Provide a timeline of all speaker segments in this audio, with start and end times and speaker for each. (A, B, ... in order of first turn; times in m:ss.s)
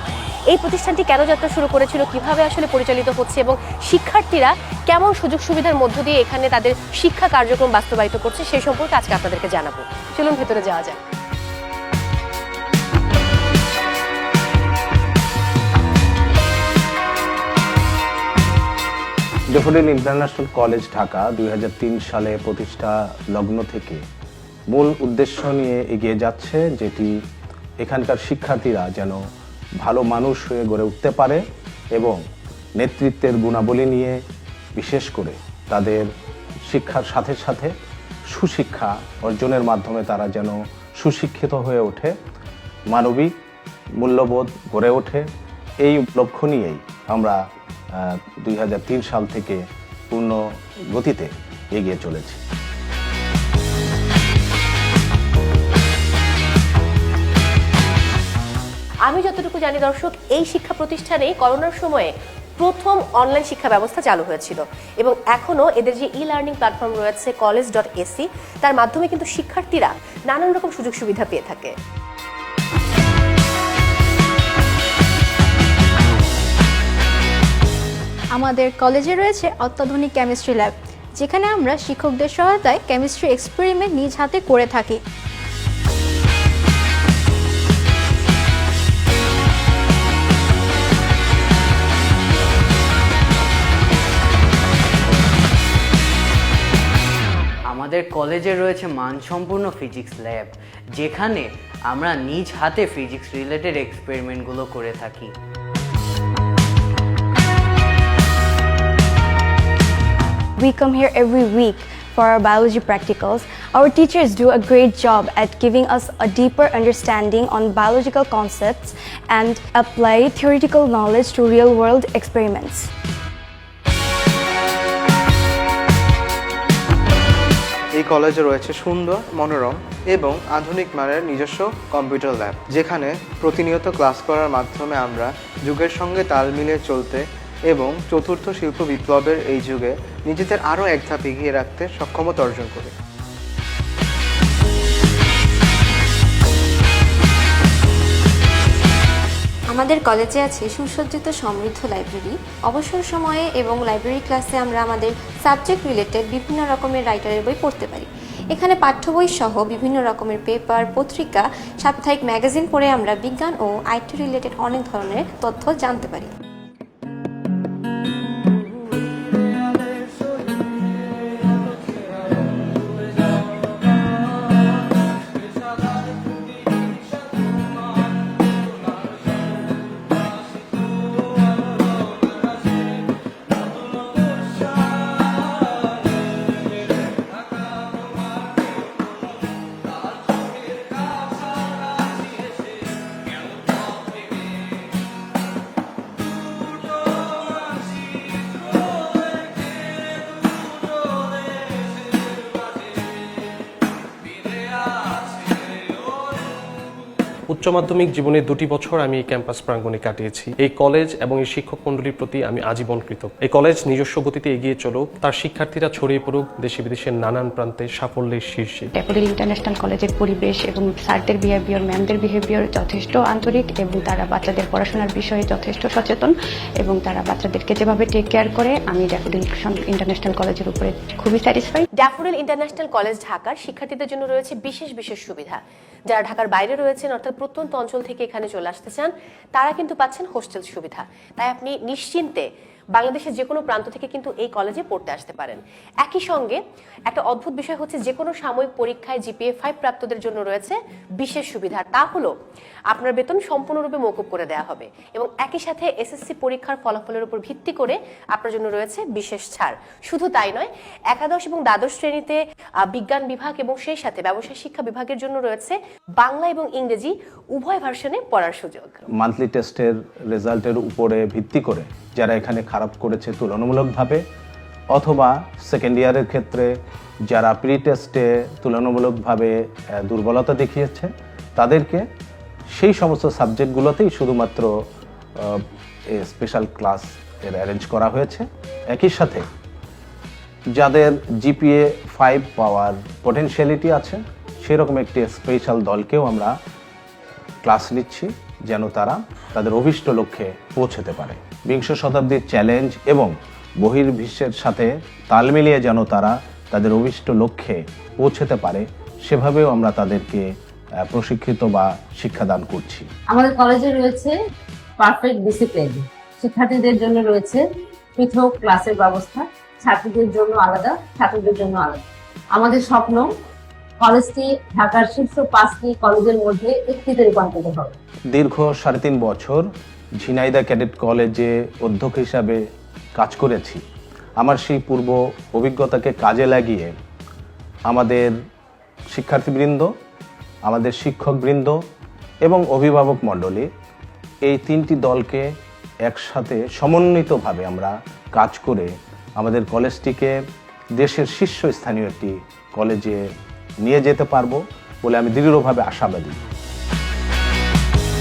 0:00.5-0:11.0 A
0:19.5-0:24.0 B
0:24.7-0:27.2 B
0:27.8-0:29.2 B
0:29.8-0:31.4 B
0:32.0-0:32.2 B
0:32.8-0:34.2 B
0:34.8-0:36.1 B
0:36.7-0:37.7 B
0:38.3-0:42.1 B
0:42.9-0:43.3 B
0:44.0-0:45.3 B
0:45.8-0:47.4 B
0:47.9-0:52.4 B
0:59.1-1:11.7 A
1:18.3-1:25.0 C
1:37.7-1:45.3 D
1:50.6-2:02.9 E
2:08.0-2:22.9 F
2:29.7-2:46.3 G
3:27.5-3:38.9 H
3:39.0-3:51.9 I
3:52.0-4:12.3 A
4:12.9-4:29.0 A
4:29.2-4:34.2 B
4:34.9-4:36.8 B
4:37.3-4:42.0 B
4:42.7-4:44.7 B
4:45.4-4:49.5 B
4:50.7-4:56.5 B
4:57.6-5:10.5 B
5:11.1-5:13.1 B
5:13.3-5:14.3 J
5:15.0-5:23.3 J
5:24.0-5:28.0 J
5:28.3-5:29.7 B
5:30.2-5:32.6 B
5:33.2-5:33.8 B
5:34.4-5:36.9 B
5:37.9-5:38.3 B
5:39.1-5:39.9 B
5:40.6-5:41.8 B
5:42.4-5:43.7 B
5:44.4-5:45.5 B
5:46.0-5:50.4 B
5:51.0-5:53.3 B
5:53.8-5:56.4 B